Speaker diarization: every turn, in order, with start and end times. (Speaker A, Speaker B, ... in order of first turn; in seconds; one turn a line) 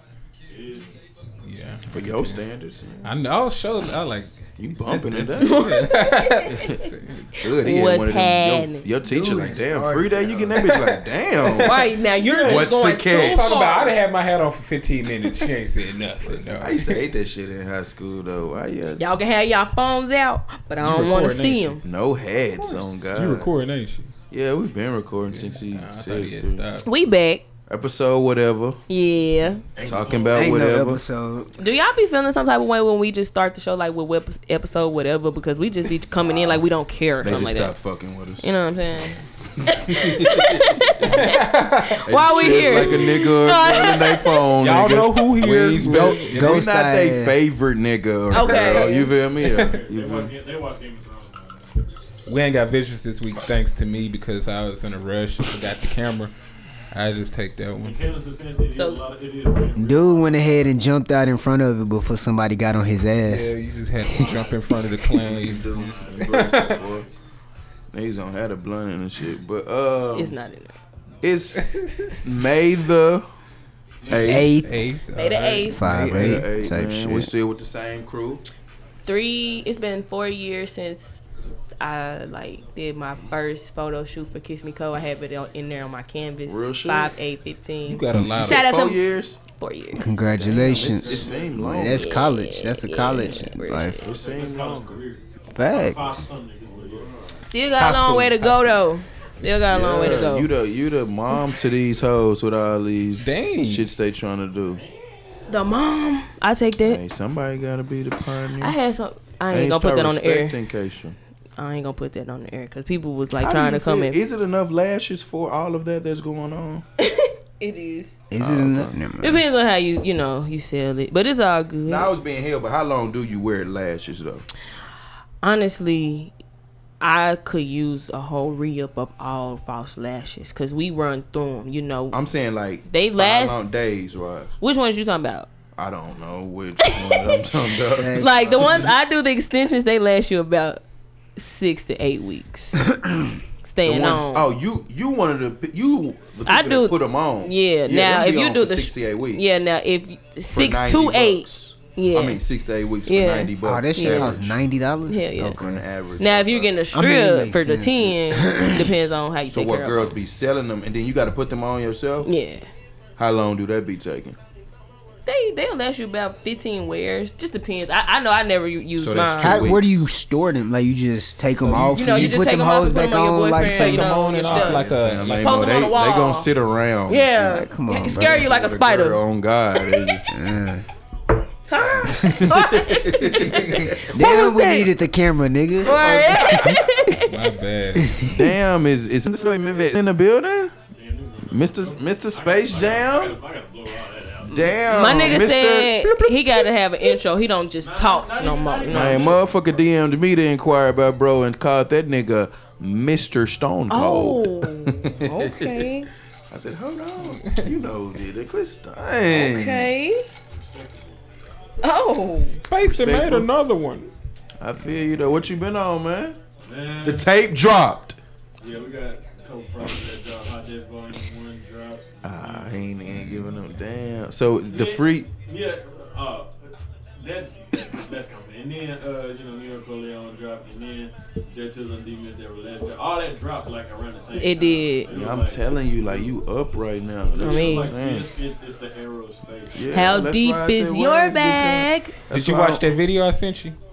Speaker A: 0.5-0.9
Speaker B: 1.4-2.4
Speaker C: 1.9-3.1
Speaker B: 3.0-7.4
Speaker C: 4.6-5.8
Speaker D: 5.4-6.9
Speaker C: 7.3-11.8
Speaker D: 7.5-8.9
Speaker E: 9.0-10.5
Speaker B: 10.5-17.1
Speaker D: 11.5-13.9
Speaker C: 12.4-13.9
Speaker C: 16.2-19.1
Speaker D: 19.0-21.8
Speaker B: 20.8-21.8
Speaker C: 21.8-23.5
Speaker B: 22.5-24.1
Speaker C: 24.3-26.7
Speaker B: 25.3-26.9
Speaker D: 26.8-27.4
Speaker C: 27.7-28.8
Speaker D: 28.9-29.6
Speaker A: 29.8-30.7
Speaker C: 29.8-31.0
Speaker E: 30.3-31.5
Speaker D: 31.6-37.7
Speaker C: 37.2-38.5
Speaker D: 38.4-44.5
Speaker E: 39.1-39.8
Speaker C: 39.6-41.3
Speaker B: 41.0-43.1
Speaker C: 42.1-50.3
Speaker B: 44.6-46.7
Speaker E: 45.8-47.4
Speaker D: 48.3-49.1
Speaker A: 48.7-51.8
Speaker B: 49.5-49.7
Speaker B: 52.3-56.3
Speaker B: 56.9-58.1
Speaker A: 57.8-60.7
Speaker D: 58.7-59.0
Speaker E: 59.8-63.6
Speaker B: 63.3-66.9
Speaker A: 64.1-67.2
Speaker C: 65.1-67.1
Speaker C: 67.9-70.3
Speaker D: 70.1-70.7
Speaker C: 71.2-73.3
Speaker B: 71.5-72.5
Speaker A: 74.0-74.5
Speaker C: 74.1-74.6
Speaker E: 74.2-74.9
Speaker B: 74.3-76.3
Speaker D: 75.1-75.8
Speaker E: 75.7-77.3
Speaker C: 75.8-78.4
Speaker D: 79.0-81.2
Speaker D: 81.8-90.0
Speaker C: 86.5-87.1
Speaker B: 87.9-88.7
Speaker C: 88.3-89.4
Speaker E: 90.0-94.1
Speaker C: 90.3-92.2
Speaker A: 90.6-91.6
Speaker D: 91.9-94.0
Speaker C: 94.0-95.0
Speaker A: 94.0-97.4
Speaker E: 95.5-96.3
Speaker C: 96.7-97.1
Speaker D: 97.4-100.5
Speaker B: 97.8-98.9
Speaker C: 99.6-104.8
Speaker B: 103.2-103.9
Speaker A: 104.7-105.5
Speaker D: 105.5-107.0
Speaker C: 106.8-108.8
Speaker D: 108.6-110.6
Speaker C: 109.5-111.2
Speaker D: 111.6-114.2
Speaker C: 113.4-116.8
Speaker D: 117.0-118.2
Speaker E: 118.3-119.4
Speaker C: 118.4-119.0
Speaker D: 119.2-122.1
Speaker C: 121.9-124.5
Speaker D: 125.4-126.3
Speaker D: 127.0-132.2
Speaker C: 132.1-134.5
Speaker D: 132.9-133.7
Speaker D: 134.6-135.5
Speaker C: 135.8-138.8
Speaker D: 136.8-137.4
Speaker E: 137.9-138.9
Speaker D: 138.1-140.8
Speaker D: 141.4-142.8
Speaker E: 142.9-143.4
Speaker D: 143.6-144.5
Speaker C: 143.8-149.5
Speaker D: 146.5-152.4
Speaker C: 150.5-154.6
Speaker D: 153.1-154.4
Speaker E: 153.6-155.8
Speaker D: 155.1-155.6
Speaker C: 155.6-156.8
Speaker D: 156.2-160.2
Speaker E: 156.9-158.9
Speaker C: 159.5-162.3
Speaker D: 162.2-162.7
Speaker C: 163.2-164.4
Speaker D: 165.3-169.8
Speaker C: 169.0-170.1
Speaker E: 169.4-174.1
Speaker B: 171.6-172.3
Speaker D: 171.8-176.5
Speaker B: 173.5-175.7
Speaker C: 174.4-177.4
Speaker D: 177.1-179.2
Speaker E: 177.4-178.4
Speaker C: 178.1-180.3
Speaker E: 180.3-180.9
Speaker D: 181.7-184.9
Speaker C: 182.0-184.0
Speaker E: 183.7-186.8
Speaker D: 185.8-187.5
Speaker C: 185.9-186.8
Speaker B: 187.1-188.3
Speaker E: 188.0-188.6
Speaker C: 188.3-190.7
Speaker A: 190.9-195.2
Speaker C: 191.5-193.3
Speaker C: 194.4-196.0
Speaker D: 194.9-199.3
Speaker A: 197.8-199.9
Speaker C: 198.9-205.9
Speaker D: 203.9-206.1
Speaker C: 206.5-209.9
Speaker B: 207.4-207.7
Speaker D: 209.3-210.2
Speaker A: 210.5-211.2
Speaker D: 211.8-212.6
Speaker B: 212.4-214.1
Speaker C: 212.8-213.5
Speaker C: 214.6-216.4
Speaker A: 216.6-217.3
Speaker C: 217.0-218.2
Speaker A: 218.6-222.9
Speaker C: 222.2-225.3
Speaker A: 224.7-236.4
Speaker D: 234.4-235.1
Speaker C: 235.1-238.3
Speaker A: 237.3-239.9
Speaker D: 237.4-238.0
Speaker C: 239.7-242.9
Speaker D: 239.9-242.2
Speaker B: 242.3-243.8